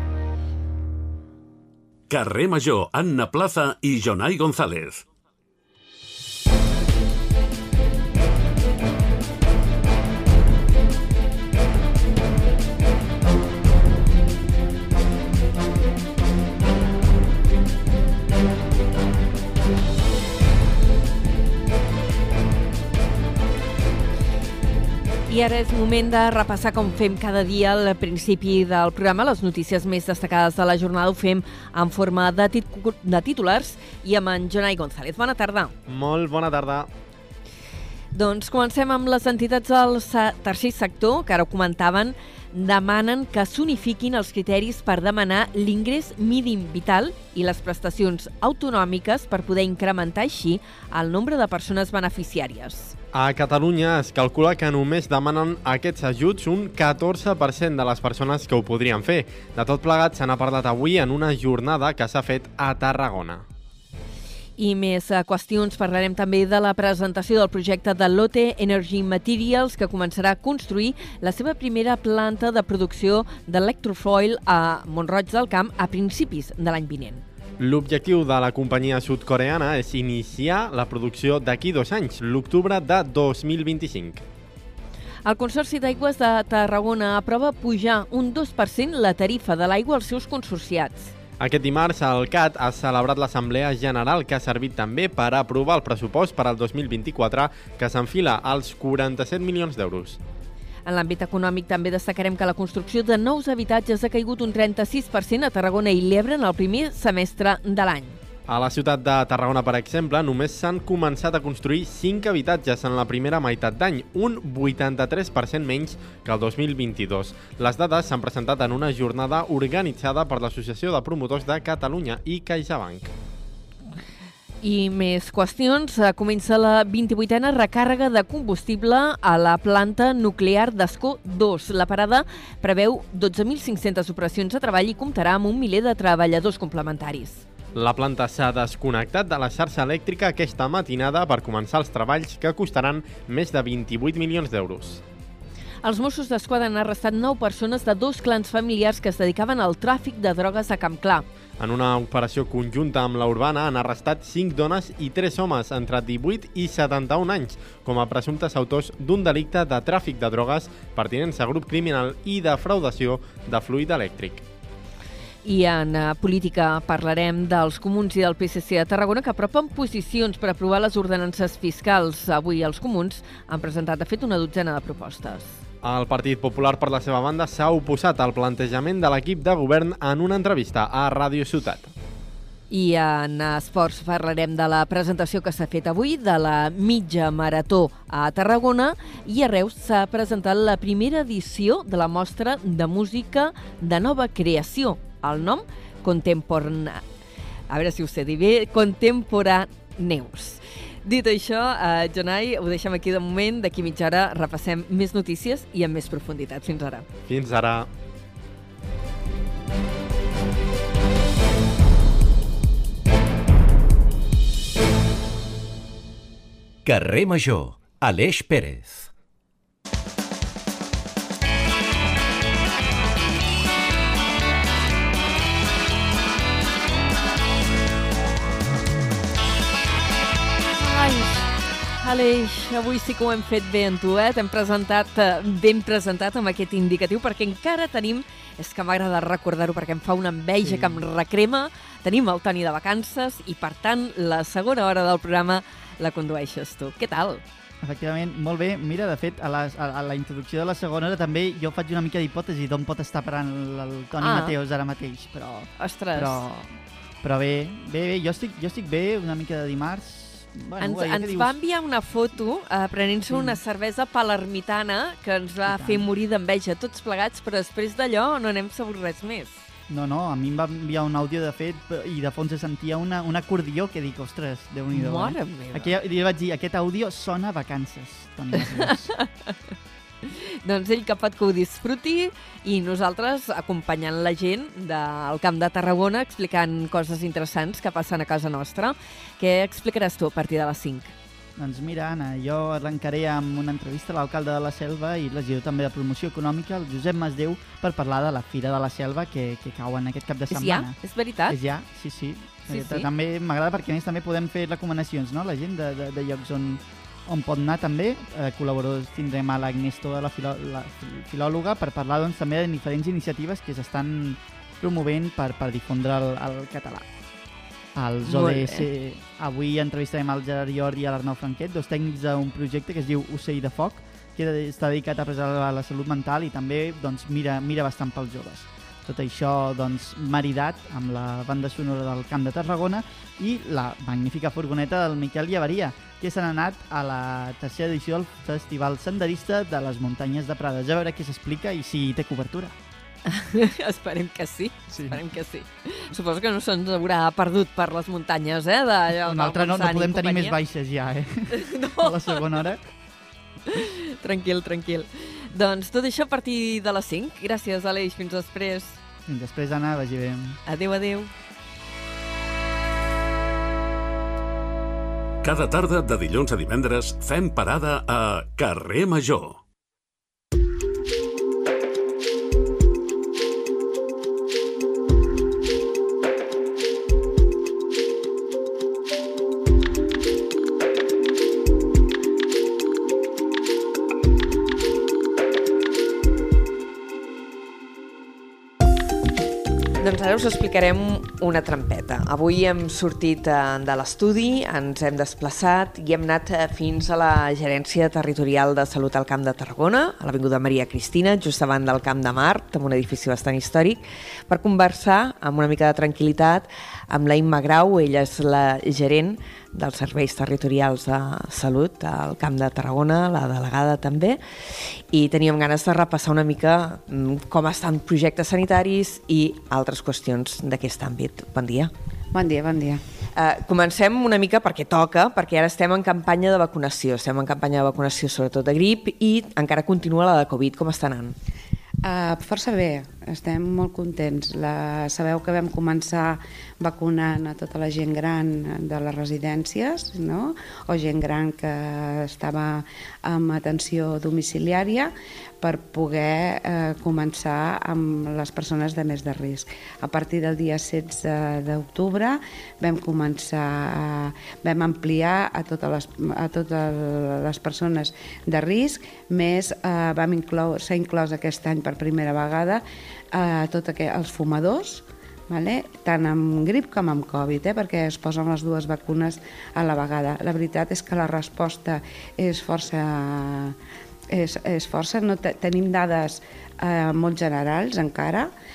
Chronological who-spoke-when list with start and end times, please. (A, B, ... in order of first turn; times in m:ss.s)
0:02.1-0:05.0 A
0:25.3-0:35.7 B
0:35.9-0:36.9 C
0:38.1-0:52.9 B
0:53.1-1:03.4 C
1:04.6-1:17.2 B
1:17.6-1:24.2 C
1:25.2-1:31.1 B
1:31.4-1:40.2 C
1:40.8-1:48.2 B
1:48.5-2:03.1 C
2:04.6-2:17.4 B
2:17.7-2:25.0 C
2:25.8-2:31.2 B
2:31.6-2:44.4 C
2:45.4-2:55.5 B
2:55.8-3:01.9 C
3:02.7-3:17.0 B
3:17.7-3:27.0 B
3:27.3-3:27.9 C
3:36.8-3:39.1 D
3:50.8-4:07.4 B
4:00.6-4:01.0 E
4:07.8-4:16.7 E
4:14.2-4:14.5 B
4:15.7-4:16.5 B
4:17.2-4:21.5 E
4:20.8-4:29.6 B
4:23.3-4:23.6 E
4:25.7-4:26.0 E
4:29.9-4:39.1 E
4:34.9-4:35.9 B
4:38.6-4:39.5 B
4:40.2-4:51.1 B
4:51.6-5:01.0 E
5:00.5-5:01.6 B
5:01.5-5:17.1 E
5:02.6-5:03.1 B
5:17.9-5:42.7 E
5:18.2-5:18.9 B
5:43.3-5:50.6 B
5:44.9-5:45.2 E
5:49.2-5:52.8 E
5:51.5-5:52.4 B
5:53.7-5:59.0 B
5:59.2-6:00.6 E
6:00.6-6:01.3 B
6:05.4-6:09.6 A
6:30.0-6:54.4 B
6:55.1-7:01.9 B
7:02.3-7:03.0 F
7:03.3-7:11.4 B
7:12.0-7:53.8 F
7:54.3-7:58.5 F